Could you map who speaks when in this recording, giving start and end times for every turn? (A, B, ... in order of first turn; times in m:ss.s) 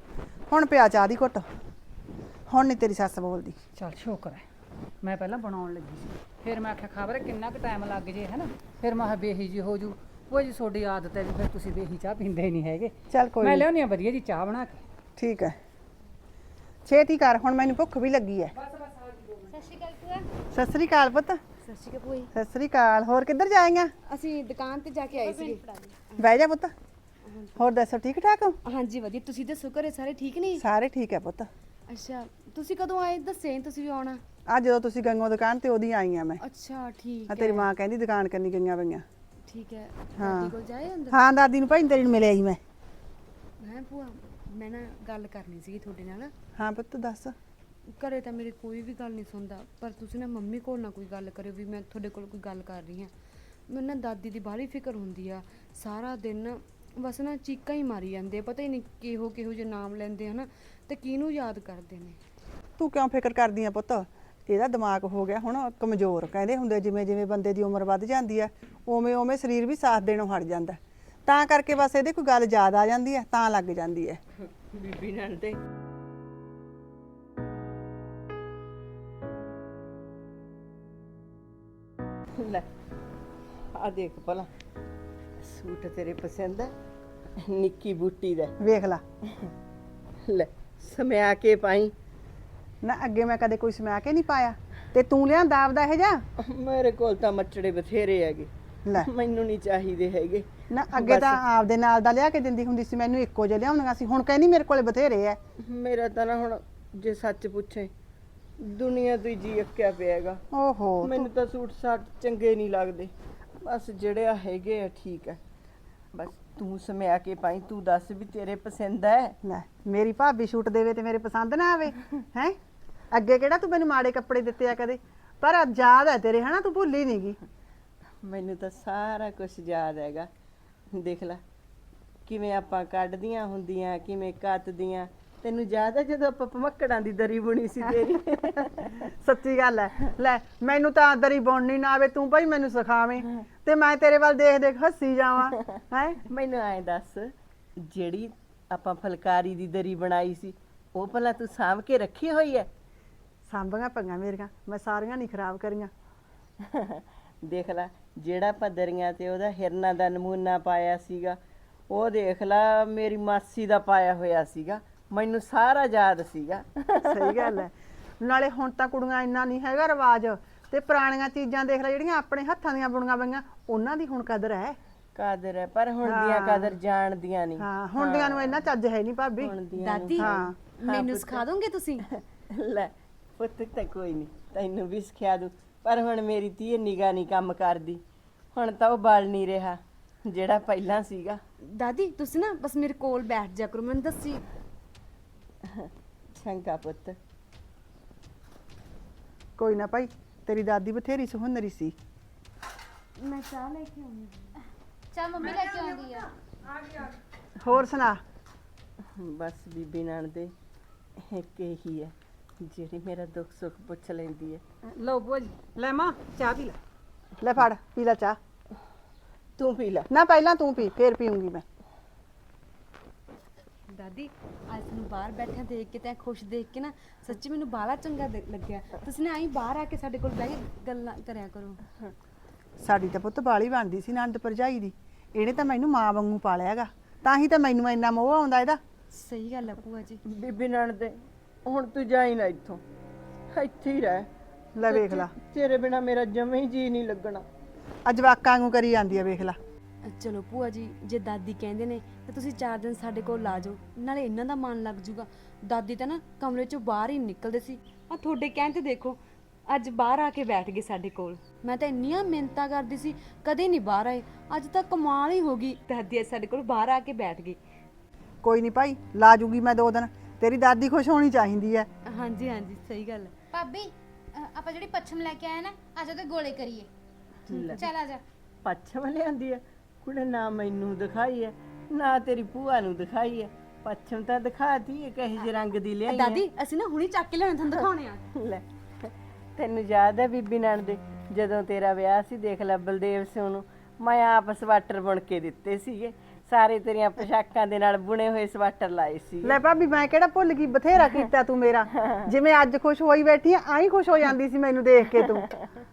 0:00.5-0:01.5 A
0:02.5-0:03.6 A
0:03.8-0:04.4 B
0:05.0-0:14.8 B
0:13.1-0:13.7 A
0:15.2-0:15.6 A
0:16.8-0:18.5 A
0:18.6-0:19.5 B
0:19.5-0:20.2 C
0:20.5-0:21.4 A
0:21.6-0:22.3 D
0:22.3-0:23.9 A
0:24.1-0:26.3 D
0:25.3-0:25.6 C
0:26.2-0:26.7 A
0:27.2-0:27.6 D
0:27.6-0:28.6 A
0:28.6-0:30.6 D
0:30.6-0:31.5 A
0:31.9-0:34.2 D
0:34.5-0:36.4 A
0:36.4-0:37.7 D
0:37.3-0:39.0 A
0:39.5-0:41.2 D
0:40.2-0:40.5 A
0:41.1-0:42.6 A
0:43.6-0:46.3 D
0:46.6-0:47.4 A
0:47.9-0:53.1 D
0:53.7-1:02.2 D
1:02.8-1:14.2 A
1:14.6-1:15.6 E
1:22.4-1:22.7 E
1:23.7-1:24.5 E
1:25.4-1:26.7 E
1:27.4-1:28.5 E
1:28.6-1:29.0 A
1:30.2-1:31.9 E
1:32.8-1:36.2 A
1:36.4-1:41.4 E
1:40.7-1:45.4 A
1:45.6-1:47.9 E
1:48.6-1:50.4 E
1:50.5-1:51.3 A
1:51.0-1:53.1 E
1:53.6-1:55.4 E
1:56.1-1:59.4 E
1:59.4-2:02.6 A
2:03.1-2:07.4 A
2:08.2-2:10.3 E
2:10.9-2:11.4 E
2:12.2-2:19.0 E
2:19.0-2:26.2 A
2:26.3-2:32.7 E
2:33.5-2:35.9 A
2:36.6-2:41.4 E
2:41.9-2:47.5 E
2:47.0-2:54.8 A
2:55.1-2:58.6 E
2:56.0-2:56.8 A
2:57.6-2:59.5 A
2:59.4-3:01.4 E
2:59.8-3:02.0 D
3:00.2-3:00.6 A
3:02.2-3:08.0 E
3:08.5-3:11.4 E
3:11.7-3:14.4 D
3:15.7-3:17.2 E
3:19.6-3:21.9 A
3:23.2-3:24.5 D
3:25.1-3:26.3 C
3:27.6-3:28.2 A
3:29.2-3:30.5 E
3:31.2-3:34.6 E
3:35.0-3:36.8 B
3:37.4-3:38.4 A
3:39.6-3:40.1 E
3:40.1-3:41.6 A
3:43.9-3:51.8 D
3:52.8-3:58.8 A
3:59.1-4:00.2 D
4:00.3-4:02.8 E
4:03.5-4:04.3 E
4:04.8-4:05.3 A
4:04.8-4:07.4 E
4:08.0-4:09.6 A
4:10.0-4:27.6 D
4:28.4-4:31.9 A
4:32.1-4:33.3 D
4:33.5-4:36.9 C
4:37.5-4:37.9 E
4:37.5-4:37.8 D
4:37.8-4:38.2 C
4:38.6-4:46.4 E
4:46.1-4:48.2 D
4:48.4-4:59.5 E
4:59.4-5:05.5 A